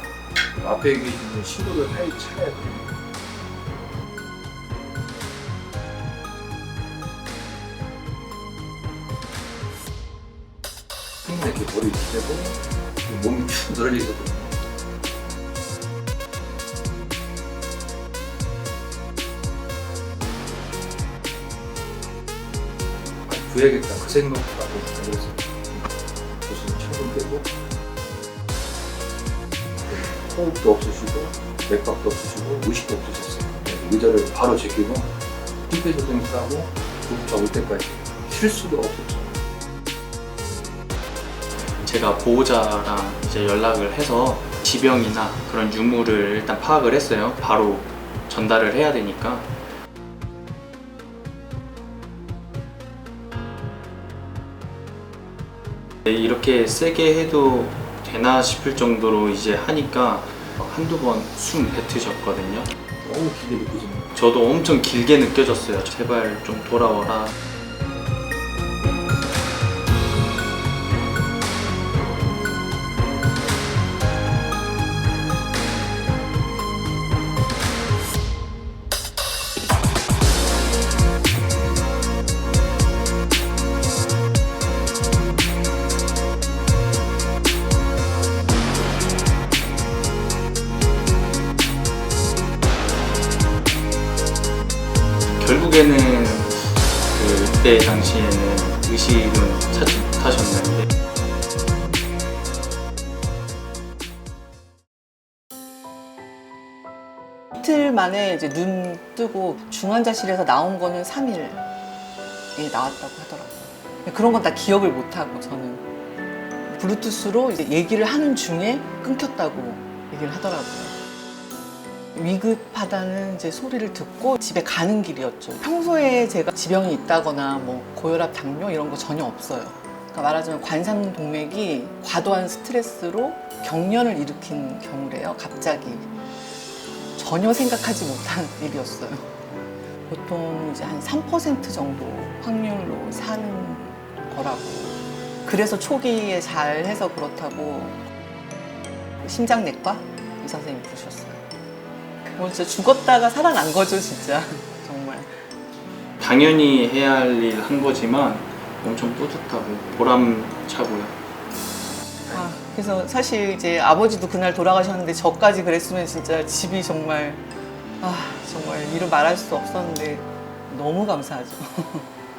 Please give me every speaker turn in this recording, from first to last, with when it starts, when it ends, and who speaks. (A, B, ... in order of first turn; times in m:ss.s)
0:00.6-0:02.9 A
0:11.2-0:14.6 A
0:23.3-0:25.9 A
0:26.4-0:27.5 A
0:29.9-0:35.1 A
0:35.7-0:39.3 A
0:41.8-0:49.5 B
0:56.1-1:02.7 B
1:03.0-1:04.1 A
1:04.1-1:07.4 B
1:35.4-1:40.8 B
1:47.6-1:51.7 C
1:52.6-1:55.8 C
1:56.7-2:01.0 C
2:02.2-2:16.1 C
2:17.2-2:19.4 C
2:20.1-2:28.0 C
2:29.2-2:31.4 C
2:32.3-2:35.4 C
2:36.2-2:41.2 B
2:42.3-2:42.5 A
2:42.3-2:47.4 C
2:48.0-2:52.1 C